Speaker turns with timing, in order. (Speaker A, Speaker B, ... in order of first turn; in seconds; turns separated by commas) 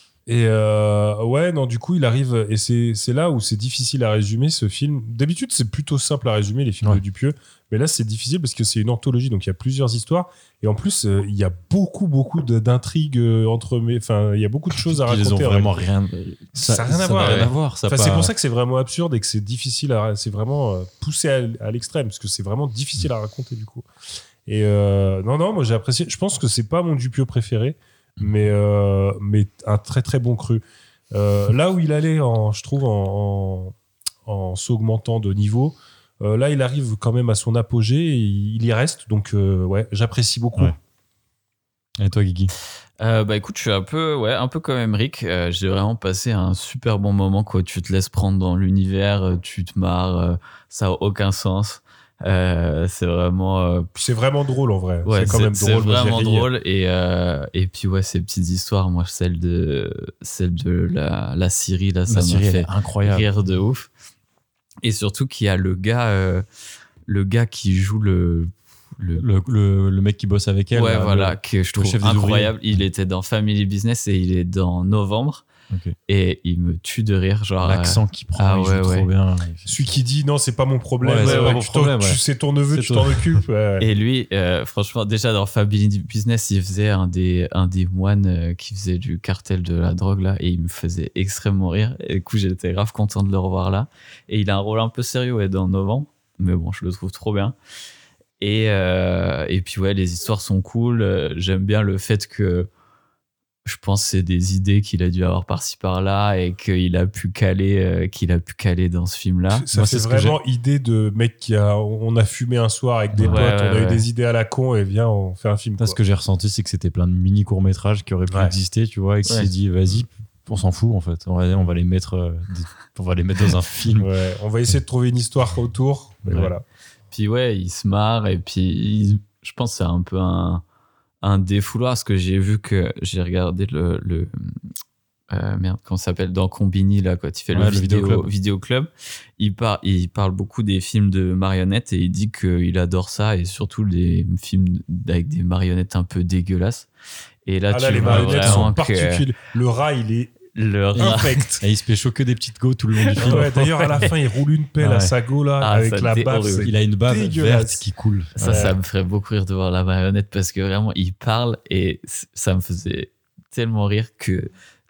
Speaker A: 0.3-15.8, Speaker B: 14.7-18.3, Speaker A: 16.6-23.9, Speaker C: 17.2-17.5, Speaker A: 24.4-33.7, Speaker A: 34.2-40.8, Speaker B: 42.0-42.5, Speaker C: 43.0-53.9, Speaker A: 54.0-56.5, Speaker C: 55.0-63.9, Speaker B: 62.1-63.3, Speaker C: 64.8-66.4, Speaker C: 67.0-69.2, Speaker B: 69.2-72.8, Speaker C: 70.7-75.5, Speaker B: 75.7-76.0, Speaker C: 76.1-79.1, Speaker B: 77.6-79.8, Speaker A: 79.7-83.8, Speaker B: 81.0-82.2, Speaker C: 81.2-81.6, Speaker B: 82.7-83.4, Speaker C: 83.8-97.5, Speaker C: 98.4-102.7, Speaker C: 103.6-109.6, Speaker A: 109.5-116.0, Speaker B: 109.7-110.4, Speaker B: 113.1-113.5, Speaker C: 113.2-114.0, Speaker B: 115.8-124.1, Speaker A: 124.0-126.6, Speaker B: 126.2-126.5, Speaker C: 127.1-130.6, Speaker C: 131.2-134.5, Speaker C: 135.3-146.9, Speaker B: 137.5-138.3, Speaker C: 147.4-149.2, Speaker A: 147.7-151.6, Speaker B: 148.0-148.7, Speaker C: 150.5-151.5, Speaker B: 150.9-154.0, Speaker C: 153.0-154.1, Speaker A: 153.2-157.8, Speaker B: 154.8-155.1, Speaker C: 155.6-156.7, Speaker B: 156.5-158.7, Speaker C: 158.4-164.5, Speaker A: 158.4-158.8